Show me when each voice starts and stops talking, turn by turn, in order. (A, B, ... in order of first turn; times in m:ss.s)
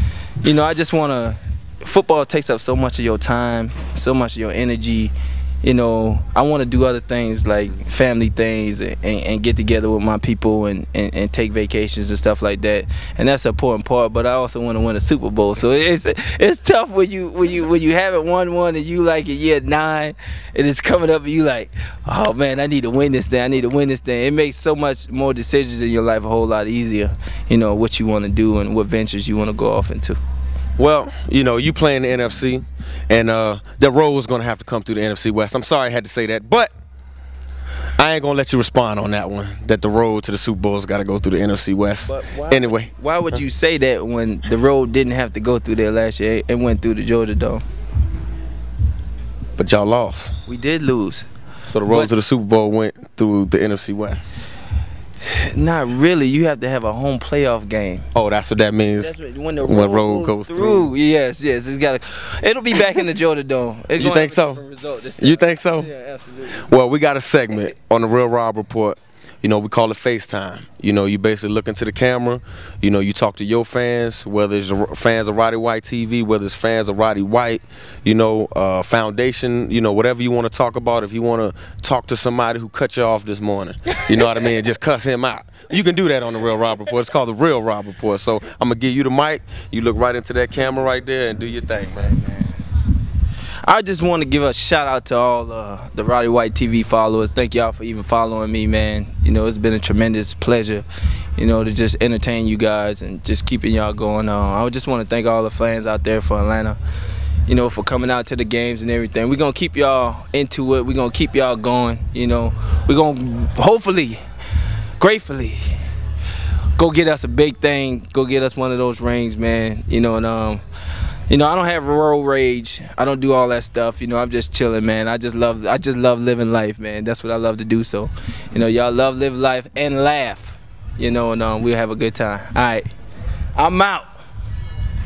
0:00.4-0:30.2 A
0:30.8-0:36.7 B
0:38.0-0:42.9 B
0:42.1-0:47.6 A
0:49.6-0:50.4 B
0:50.5-0:51.3 A
0:51.7-0:54.3 B
0:55.3-0:58.1 A
0:58.1-1:00.9 B
0:59.0-1:06.7 A
1:04.0-1:04.6 B
1:05.2-1:05.9 B
1:06.5-1:32.4 B
1:33.6-1:40.8 A
1:41.4-1:46.8 A
1:47.5-1:54.2 A
1:55.0-1:55.8 A
1:56.8-2:00.6 A
2:01.3-2:12.9 A
2:13.6-2:14.2 A